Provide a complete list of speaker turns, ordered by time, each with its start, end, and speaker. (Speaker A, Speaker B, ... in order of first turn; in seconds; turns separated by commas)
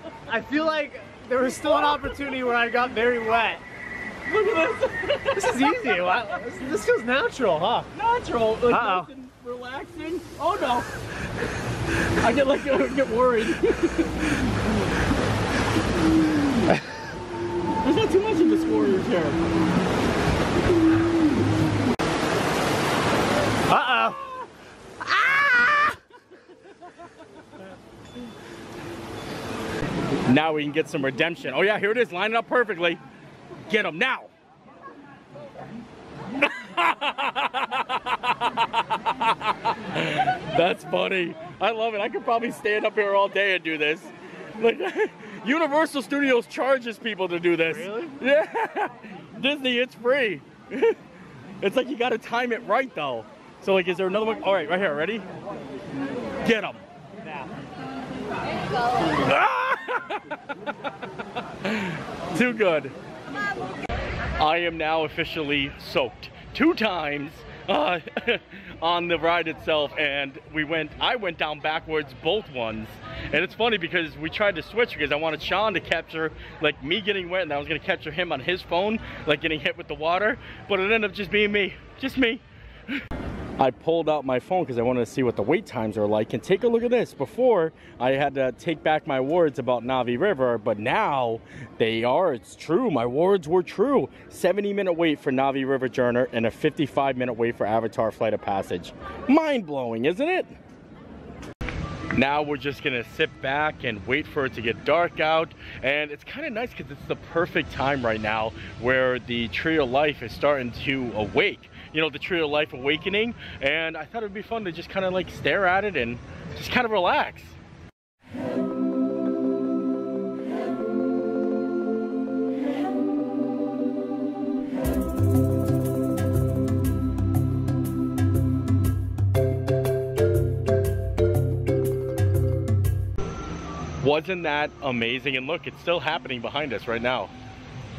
Speaker A: 0.3-3.6, Speaker B: 1.5-2.5, Speaker B: 4.3-6.2, Speaker A: 5.3-7.9, Speaker B: 7.9-11.0, Speaker A: 8.7-9.1, Speaker B: 12.2-14.4, Speaker B: 17.8-19.4, Speaker A: 23.7-24.2, Speaker B: 23.8-24.1, Speaker A: 25.4-25.7, Speaker B: 30.3-33.0, Speaker B: 33.7-34.3, Speaker B: 36.4-51.0, Speaker A: 47.7-48.2, Speaker B: 51.6-55.3, Speaker B: 56.4-56.8, Speaker A: 57.2-57.5, Speaker B: 59.1-60.4, Speaker B: 61.6-63.0, Speaker B: 64.4-82.4, Speaker B: 83.6-100.5, Speaker B: 102.1-117.6, Speaker B: 134.0-137.3